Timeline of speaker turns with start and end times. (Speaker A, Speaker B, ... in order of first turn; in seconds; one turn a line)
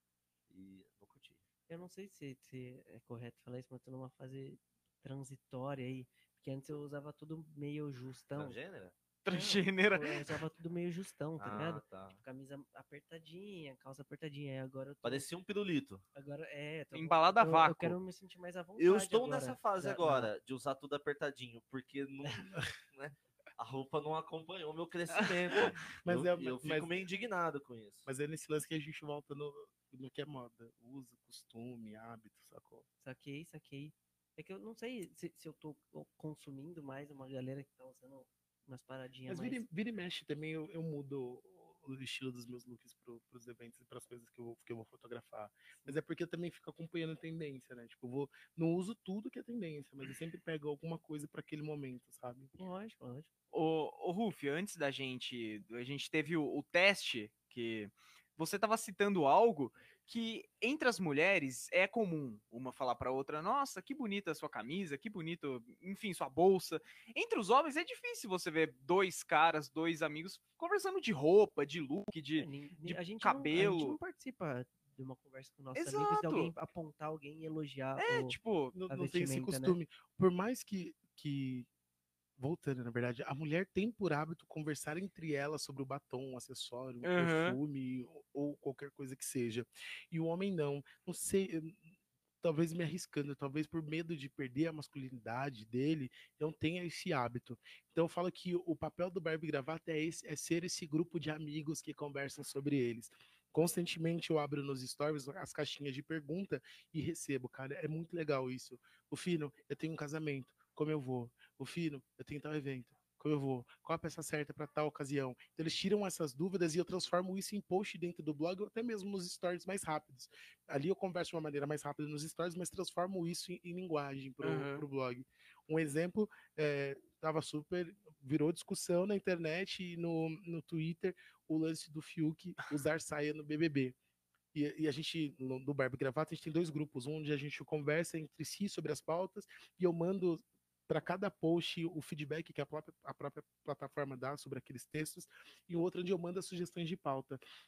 Speaker A: 0.5-1.4
Speaker B: 1.7-8.6
Speaker A: 8.3-8.9
Speaker C: 9.2-10.4
Speaker B: 9.3-15.2
Speaker A: 11.4-12.2
Speaker A: 15.0-16.0
Speaker B: 16.1-20.3
Speaker C: 16.9-18.0
Speaker A: 18.8-28.1
Speaker D: 26.0-26.9
Speaker D: 28.1-32.9
Speaker B: 33.0-39.6
Speaker D: 39.3-52.5
Speaker B: 52.6-53.3
Speaker C: 53.5-74.0
Speaker B: 72.4-79.8
Speaker C: 75.8-76.5
Speaker C: 78.0-78.8
Speaker D: 78.7-81.7
Speaker D: 82.4-91.9
Speaker C: 87.0-87.6
Speaker D: 92.4-134.0
Speaker C: 124.4-124.9
Speaker D: 134.5-147.4